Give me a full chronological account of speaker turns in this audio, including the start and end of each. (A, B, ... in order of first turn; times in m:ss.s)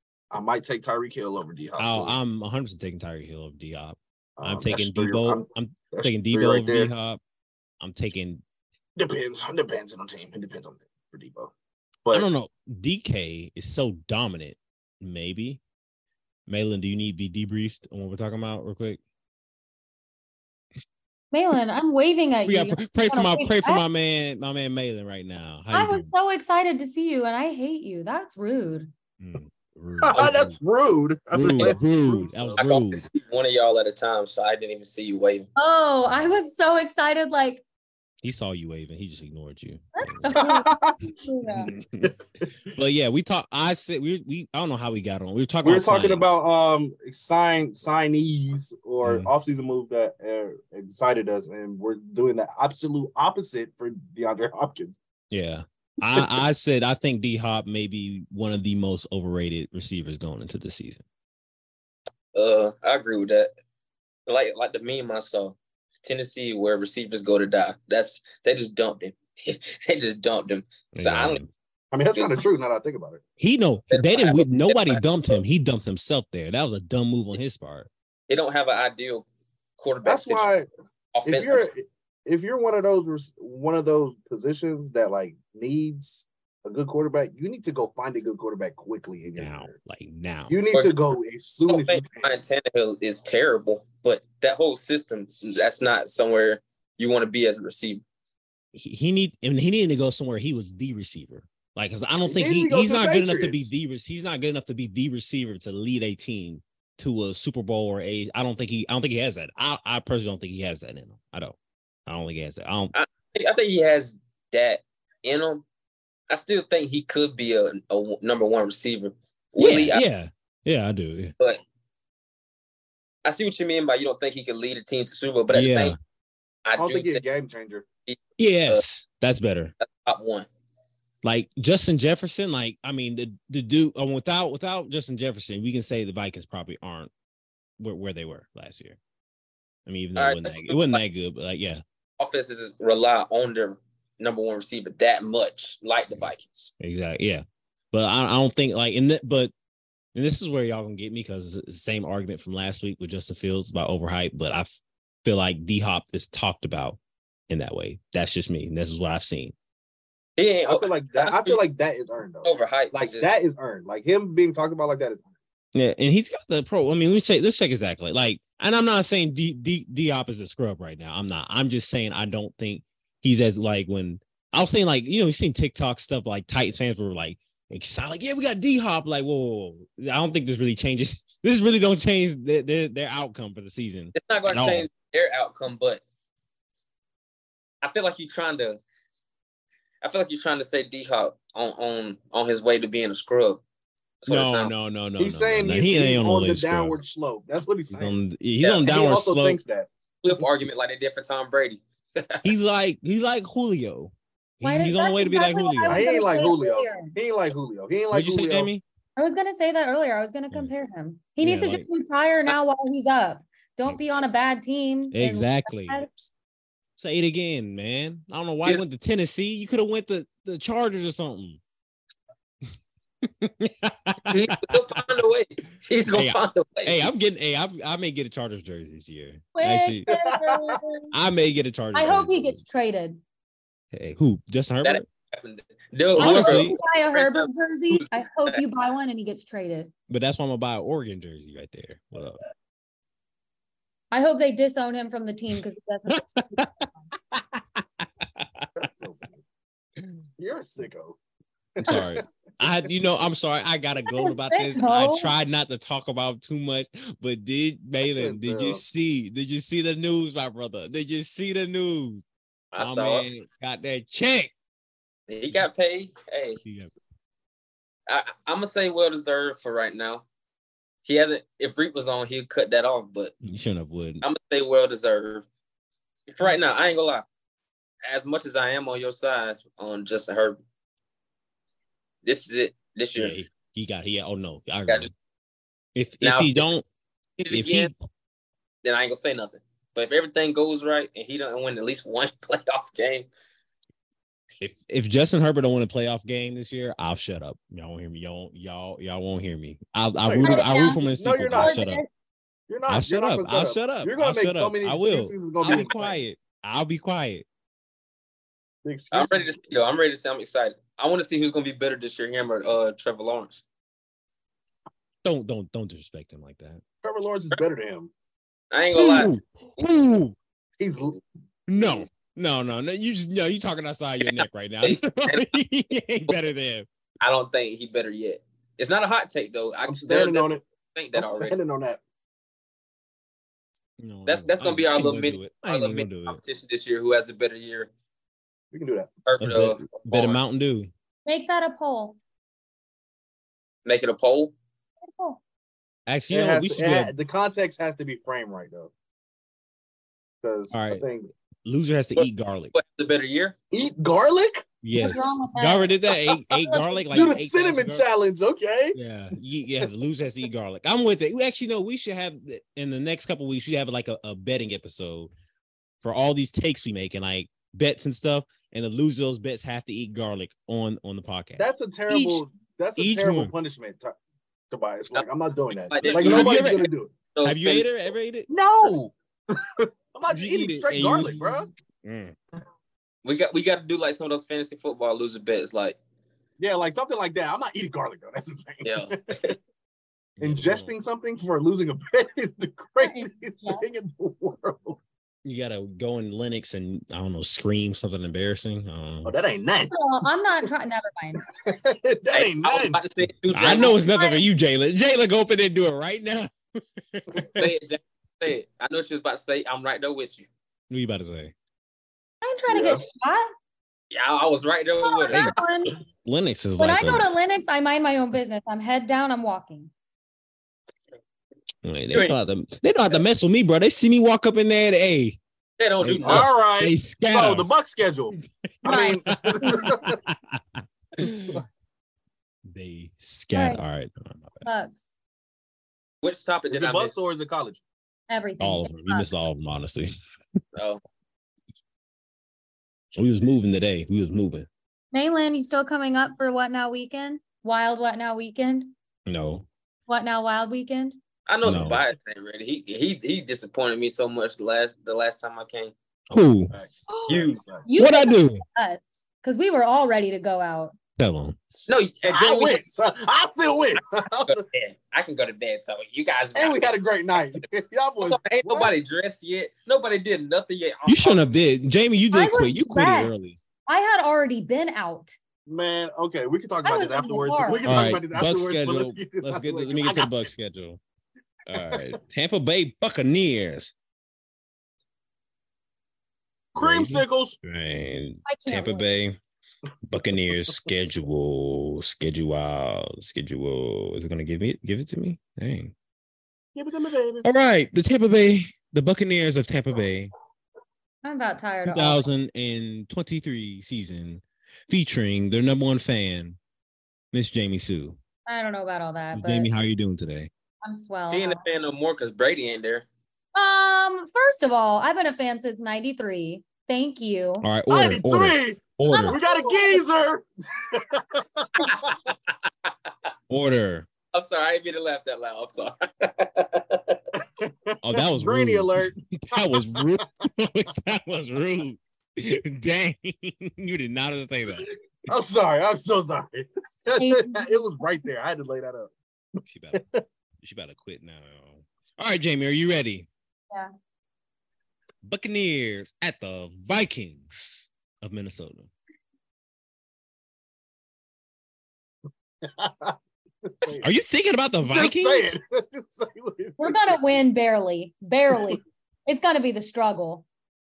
0:00.3-0:02.2 A
0:01.8-0:07.2 B
0:04.4-0:06.9 A
0:07.8-0:08.4 B
0:09.0-0:11.5 A
0:12.1-0:15.6 B
0:16.5-0:19.0 B
0:21.3-0:23.8 C
0:22.4-0:26.1 B
0:25.7-0:28.9 C
0:29.2-0:30.6 B
0:30.0-0:32.6 A
0:31.3-0:33.1 B
0:32.6-0:35.5 D
0:35.6-0:37.6 C
0:38.2-0:40.4 B
0:40.0-0:41.7 C
0:40.3-0:41.0 A
0:41.5-0:42.1 B
0:42.7-0:46.4 B
0:45.6-0:55.0 A
0:49.0-0:49.3 B
0:55.3-1:01.0 B
1:02.3-1:03.5 D
1:04.3-1:11.4 D
1:10.9-1:11.5 B
1:11.9-1:13.2 A
1:12.1-1:12.4 D
1:13.4-1:17.9 B
1:13.9-1:15.0 D
1:18.3-1:19.2 D
1:19.8-1:20.5 D
1:20.0-1:20.7 A
1:21.1-1:21.7 D
1:21.2-1:29.7 A
1:29.4-1:30.6 B
1:30.5-1:32.3 A
1:31.7-1:38.0 D
1:38.7-1:51.6 B
1:42.2-1:43.7 A
1:52.1-1:52.9 B
1:52.9-1:55.6 D
1:56.3-2:00.0 D
1:59.6-2:01.3 B
2:03.2-2:05.9 D
2:05.5-2:06.0 B
2:06.6-2:07.2 D
2:06.8-2:07.8 A
2:08.1-2:08.8 D
2:08.4-2:09.7 B
2:09.8-2:10.5 D
2:11.2-2:17.1 B
2:17.8-2:19.0 B
2:19.9-2:21.8 B
2:20.2-2:21.0 D
2:22.2-2:26.7 D
2:26.8-2:29.5 B
2:30.1-2:37.0 B
2:37.5-2:39.5 B
2:40.4-2:41.6 D
2:40.6-2:45.3 A
2:42.4-2:43.3 D
2:45.7-3:04.9 B
3:04.1-3:06.0 D
3:07.8-3:08.8 D
3:10.0-3:13.6 D
3:14.2-3:14.7 D
3:14.3-3:17.0 B
3:15.2-3:18.2 A
3:17.9-3:19.6 B
3:18.8-3:19.9 A
3:20.2-3:22.5 D
3:22.4-3:26.1 B
3:24.6-3:27.1 C
3:25.8-3:28.7 A
3:28.1-3:28.8 B
3:29.2-3:36.3 C
3:31.4-3:31.8 B
3:35.1-3:36.0 B
3:37.0-3:41.6 B
3:43.2-3:44.9 B
3:44.3-3:47.1 D
3:46.1-3:50.1 B
3:49.5-3:51.1 C
3:50.1-3:50.8 A
3:51.1-3:52.6 B
3:51.9-3:53.2 C
3:53.9-3:55.0 B
3:54.8-3:58.6 D
3:56.2-3:56.8 B
3:56.2-3:59.9 C
4:00.1-4:02.4 B
4:04.1-4:06.9 C
4:06.1-4:08.7 B
4:08.8-4:09.4 A
4:10.4-4:11.2 A
4:11.8-4:12.2 A
4:11.8-4:22.2 B
4:14.1-4:15.3 C
4:18.0-4:18.8 A
4:22.7-4:23.3 D
4:22.8-4:24.5 B
4:25.3-4:26.6 D
4:26.6-4:26.9 B
4:28.1-4:30.2 D
4:31.0-4:33.3 D
4:33.4-4:34.2 B
4:34.2-4:35.4 D
4:36.3-4:37.2 D
4:38.0-4:40.6 D
4:42.2-4:43.4 D
4:43.2-4:45.1 B
4:45.9-4:46.8 B
4:46.2-4:46.6 D
4:47.4-4:47.9 D
4:47.5-4:47.9 B
4:48.8-4:53.3 D
4:54.6-5:02.0 B
5:00.2-5:01.8 A
5:00.4-5:02.1 C
5:02.7-5:06.2 A
5:02.9-5:07.4 B
5:05.7-5:06.0 D
5:08.8-5:09.6 A
5:09.1-5:13.6 D
5:15.2-5:16.8 B
5:17.0-5:18.1 A
5:18.7-5:19.3 D
5:18.9-5:20.4 B
5:20.8-5:21.2 A
5:21.7-5:26.8 B
5:21.8-5:22.0 A
5:24.2-5:25.5 D
5:27.2-5:31.5 D
5:29.8-5:32.0 A
5:34.0-5:36.4 B
5:34.2-5:37.9 D
5:38.7-5:39.1 A
5:39.2-5:40.5 D
5:39.4-5:40.9 B
5:41.2-5:42.2 C
5:43.8-5:44.5 D
5:45.0-5:45.4 C
5:46.1-5:47.1 B
5:46.3-5:48.9 A
5:50.4-5:51.3 A
5:50.7-5:51.0 B
5:51.6-5:52.7 B
5:52.7-5:53.6 D
5:53.7-5:54.6 A
5:54.8-5:58.0 B
5:55.0-5:56.0 C
5:56.5-5:57.2 C
5:57.1-5:59.0 A
5:58.9-6:05.3 B
6:06.0-6:12.4 B
6:11.6-6:14.1 A
6:13.0-6:13.5 B
6:14.7-6:17.1 A
6:15.9-6:16.8 D
6:16.0-6:16.9 B
6:17.3-6:17.9 D
6:17.4-6:18.9 B
6:18.5-6:21.7 A
6:20.3-6:22.4 B
6:23.2-6:26.0 D
6:26.6-6:29.5 A
6:28.8-6:29.5 D
6:30.4-6:30.9 B
6:30.4-6:35.0 A
6:33.0-6:33.9 C
6:35.4-6:39.3 B
6:39.2-6:39.9 A
6:39.9-6:41.4 C
6:41.5-6:43.0 A
6:42.3-6:44.0 D
6:43.5-6:47.7 B
6:43.7-6:44.4 C
6:47.6-6:50.5 D
6:50.9-6:51.5 B
6:52.4-6:53.5 C
6:52.7-6:53.0 A
6:54.1-6:55.6 D
6:55.0-6:56.0 C
6:56.2-6:57.2 B
6:56.8-6:59.9 C
7:01.8-7:05.4 B
7:05.8-7:06.5 D
7:06.0-7:07.7 B
7:06.2-7:10.2 A
7:08.8-7:09.8 C
7:08.9-7:11.6 B
7:12.7-7:14.6 B
7:13.5-7:13.8 C
7:14.6-7:15.2 C
7:16.2-7:17.1 D
7:16.7-7:17.8 A
7:18.3-7:19.3 C
7:18.6-7:20.1 B
7:20.7-7:21.0 D
7:23.1-7:24.7 B
7:25.1-7:28.9 C
7:29.3-7:29.6 B
7:30.1-7:31.2 C
7:31.5-7:35.9 D
7:31.6-7:32.0 B
7:36.3-7:36.7 B
7:36.7-7:37.8 A
7:37.1-7:40.9 C
7:37.3-7:37.6 D
7:38.0-7:38.6 B
7:41.2-7:41.6 B
7:41.9-7:42.8 D
7:42.2-7:44.6 A
7:44.5-7:46.9 D
7:46.5-7:48.9 A
7:48.2-7:51.5 D
7:51.0-7:53.6 B
7:52.3-7:53.3 C
7:53.8-7:55.3 C
7:55.7-8:00.5 A
7:56.8-7:57.9 C
7:57.8-8:01.0 B
8:01.7-8:03.9 B
8:01.7-8:02.1 A
8:06.7-8:07.6 A
8:06.8-8:09.4 B
8:08.4-8:09.1 C
8:10.0-8:15.9 B
8:16.7-8:17.4 A
8:17.4-8:20.3 B
8:21.2-8:22.3 C
8:21.8-8:26.6 B
8:27.3-8:28.2 B
8:28.4-8:29.7 C
8:29.3-8:30.5 B
8:30.8-8:31.6 C
8:31.3-8:33.1 D
8:33.5-8:37.7 C
8:37.6-8:39.4 B
8:37.9-8:42.3 A
8:39.1-8:40.0 C
8:41.8-8:42.1 D
8:43.5-8:44.1 B
8:44.3-8:47.2 D
8:47.4-8:50.2 A
8:48.0-8:54.9 B
8:55.3-8:59.1 A
8:57.2-8:57.9 C
8:59.7-9:00.0 B
8:59.9-9:00.2 A
9:00.6-9:03.3 B
9:05.2-9:08.9 B
9:12.6-9:14.1 A
9:14.0-9:15.6 B
9:14.8-9:17.3 A
9:16.8-9:20.4 C